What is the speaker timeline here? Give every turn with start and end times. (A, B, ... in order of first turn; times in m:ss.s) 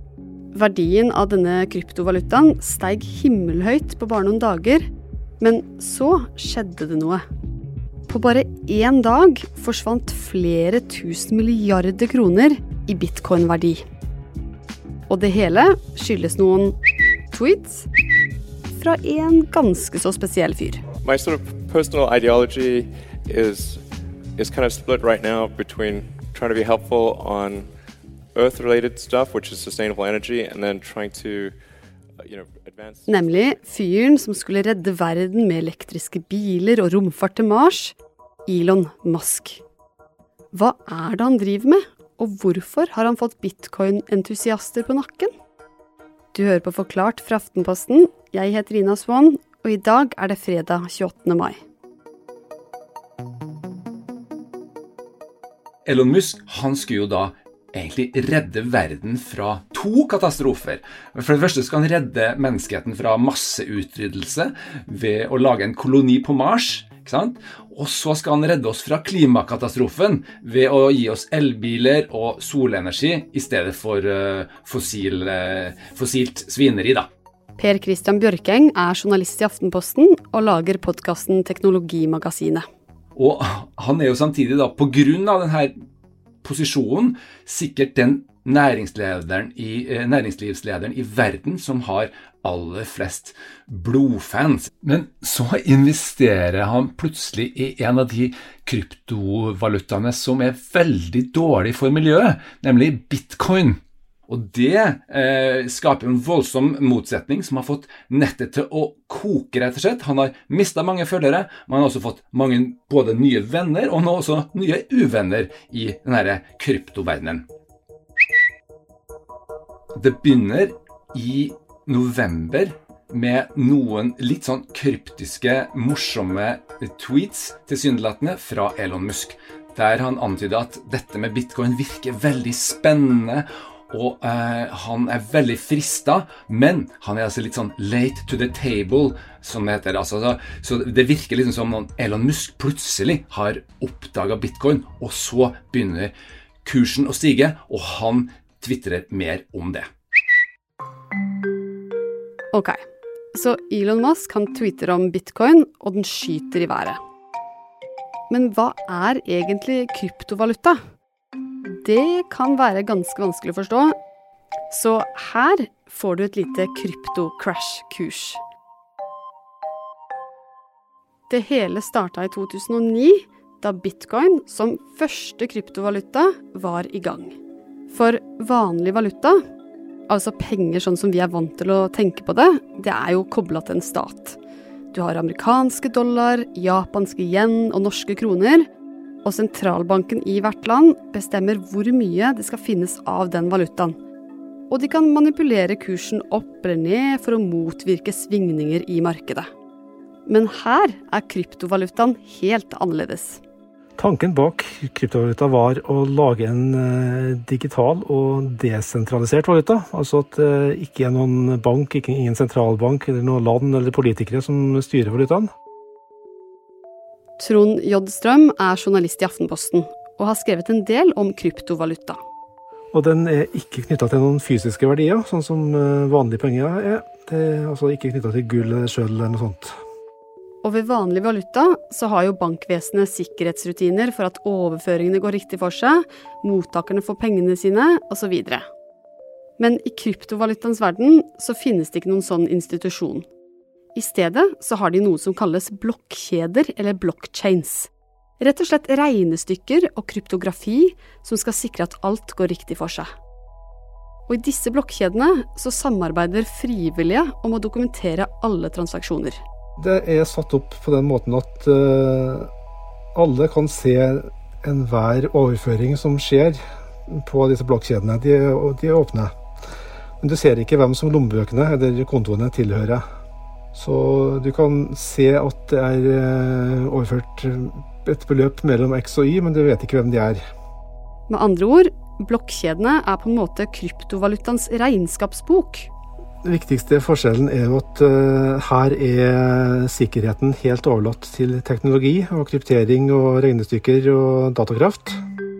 0:00.5-0:04.9 A
0:05.4-0:07.2 A
0:08.1-0:13.8 A
0:15.1-0:16.8 A
0:17.3-0:17.9 A
0:18.8-0:20.8 A
0:21.0-0:23.8 B
0:24.4-0:27.7 B
0:28.3-0:31.6 B
0:32.2-0:33.8 B
0:33.1-0:38.0 A
0:38.5-0:39.6 A
0:40.5-0:45.3 A
0:46.3-0:51.6 A
0:55.9-1:17.1 C
1:17.6-1:22.6 A
1:23.2-1:25.7 C
1:26.4-1:57.4 C
2:00.0-2:29.9 C
2:32.5-2:32.8 A
2:33.3-2:37.0 A
2:38.3-2:40.8 A
2:41.7-2:44.0 A
2:44.7-2:48.4 A
2:51.3-2:57.4 A
2:57.9-2:59.4 A
3:00.1-3:04.4 A
3:04.9-3:08.7 A
3:09.2-3:14.0 A
3:14.7-3:19.5 A
3:20.3-3:23.4 A
3:24.0-3:35.5 D
3:37.4-3:42.2 A
3:42.9-3:49.8 D
3:50.6-3:58.7 A
3:59.6-4:03.3 A
4:04.0-4:13.1 A
4:14.3-4:19.4 A
4:19.8-4:22.5 D
4:23.1-4:29.3 D
4:30.2-4:33.0 D
4:33.7-4:40.4 D
4:41.3-4:45.9 A
4:46.4-4:55.2 D